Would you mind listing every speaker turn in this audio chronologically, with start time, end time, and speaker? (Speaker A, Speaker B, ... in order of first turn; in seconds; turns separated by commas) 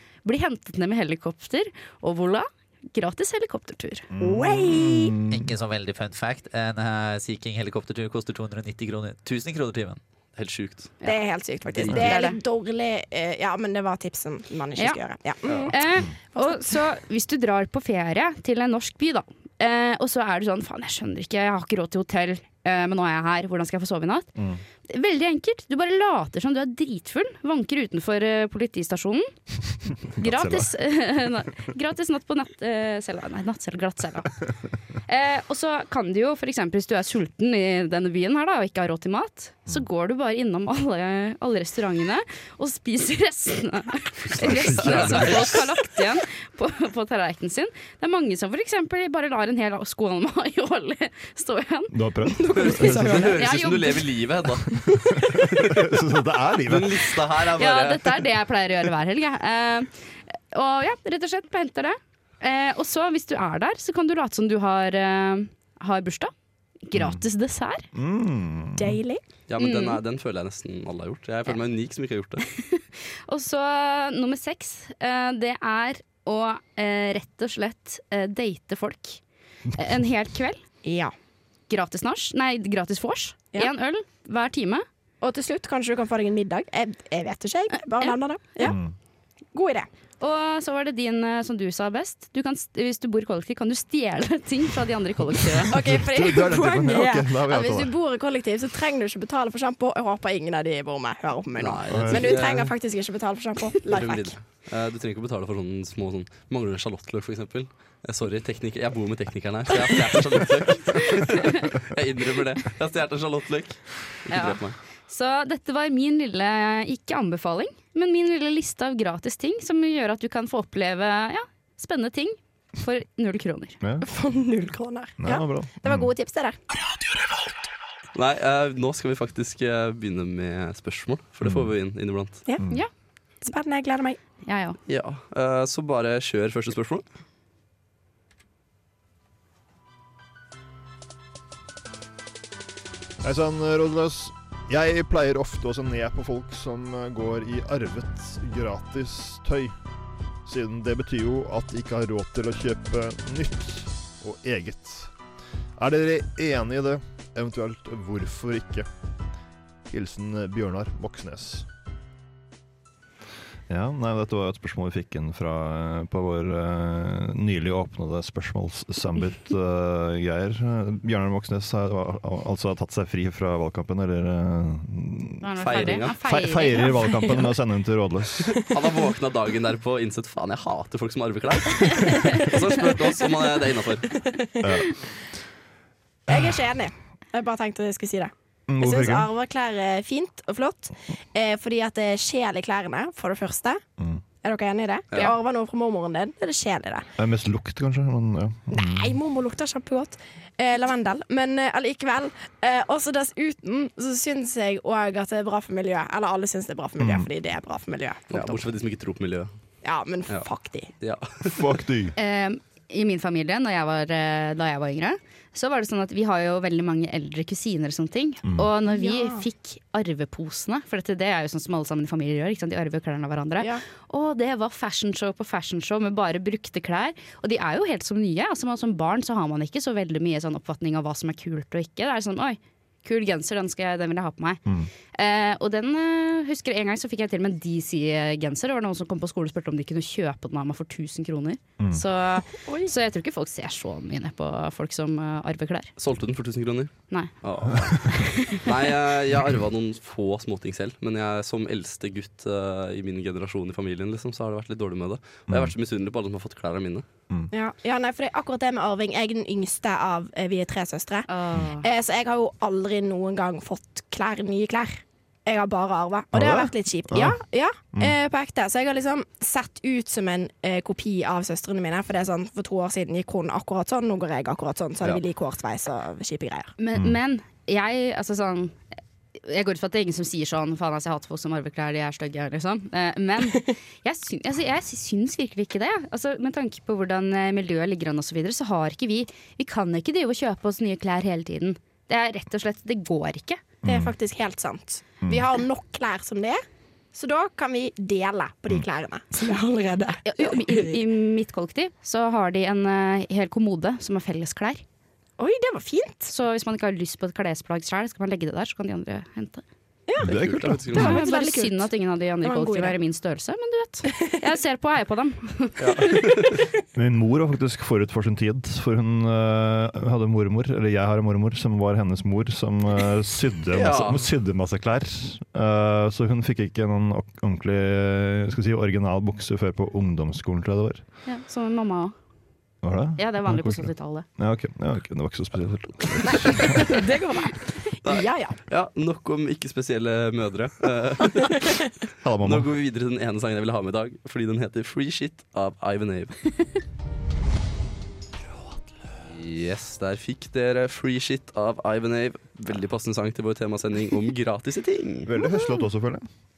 Speaker A: 0.2-4.1, Speaker B: 4.1-5.5, Speaker C: 4.2-5.2, Speaker D: 5.3-10.0, Speaker E: 10.3-10.9, Speaker C: 11.0-15.8, Speaker E: 11.7-12.1, Speaker A: 11.9-12.4, Speaker E: 15.4-15.7, Speaker A: 15.7-24.3, Speaker C: 16.3-16.7, Speaker A: 24.9-29.3, Speaker B: 30.1-30.7, Speaker A: 30.1-34.4, Speaker A: 35.1-52.0, Speaker B: 44.3-45.7, Speaker E: 44.6-45.6, Speaker B: 51.9-53.4, Speaker C: 52.4-53.4, Speaker E: 52.5-55.9, Speaker A: 53.4-54.1, Speaker B: 55.2-57.1, Speaker E: 56.6-58.2, Speaker A: 57.6-59.9, Speaker A: 60.5-66.3, Speaker A: 66.8-67.9, Speaker B: 66.9-67.2, Speaker B: 67.9-69.0, Speaker C: 68.8-69.2, Speaker E: 69.5-72.5, Speaker A: 69.6-70.0, Speaker A: 72.5-79.2, Speaker A: 79.7-80.6, Speaker C: 80.8-81.1, Speaker A: 81.7-84.8, Speaker C: 85.2-88.8, Speaker A: 88.0-88.7, Speaker B: 88.6-88.9, Speaker C: 89.5-89.9, Speaker A: 90.2-95.7, Speaker C: 95.7-104.3, Speaker B: 95.7-97.9, Speaker E: 101.6-102.7, Speaker B: 101.9-102.6, Speaker E: 103.9-114.8, Speaker A: 114.3-123.8, Speaker B: 123.8-124.1, Speaker C: 124.0-126.6, Speaker B: 125.2-126.1, Speaker E: 128.1-132.4, Speaker B: 131.4-131.7, Speaker C: 133.4-134.2, Speaker A: 134.4-134.8, Speaker E: 134.9-137.0, Speaker B: 143.2-149.8, Speaker B: 150.4-155.1, Speaker B: 155.8-158.9, Speaker B: 159.9-161.7, Speaker B: 163.7-178.7, Speaker A: 175.4-177.4, Speaker E: 175.6-176.2, Speaker E: 178.5-184.2, Speaker C: 184.1-184.7, Speaker B: 184.6-184.9, Speaker B: 186.3-186.6, Speaker C: 186.3-193.8, Speaker B: 188.7-189.3, Speaker C: 194.4-197.1, Speaker B: 197.2-199.2, Speaker C: 198.7-208.6, Speaker B: 207.0-207.3, Speaker E: 208.3-209.5, Speaker C: 209.8-210.9, Speaker E: 211.0-211.7, Speaker B: 211.4-212.2, Speaker A: 212.2-234.6, Speaker C: 218.9-219.4, Speaker A: 235.1-245.9, Speaker C: 242.7-242.9, Speaker E: 246.0-257.0, Speaker A: 248.1-248.7, Speaker B: 255.5-255.7, Speaker C: 257.5-261.3, Speaker A: 261.3-261.9, Speaker C: 261.8-276.7, Speaker B: 266.3-267.4, Speaker A: 276.8-278.8, Speaker A: 279.4-293.6, Speaker B: 293.8-294.1, Speaker C: 293.8-296.6, Speaker C: 297.1-301.0, Speaker A: 300.2-304.8, Speaker C: 305.4-306.3, Speaker A: 306.2-309.6, Speaker C: 310.1-311.9, Speaker B: 310.2-310.9, Speaker E: 310.3-311.2, Speaker A: 310.9-316.4, Speaker C: 312.4-312.9, Speaker E: 315.8-316.6, Speaker B: 316.9-331.0, Speaker E: 323.7-324.3, Speaker A: 331.2-332.1, Speaker B: 332.8-336.9, Speaker A: 333.2-334.2, Speaker C: 336.3-338.6, Speaker E: 338.0-341.7, Speaker B: 342.2-342.7, Speaker E: 342.4-346.4, Speaker E: 349.2-355.3, Speaker B: 355.2-356.3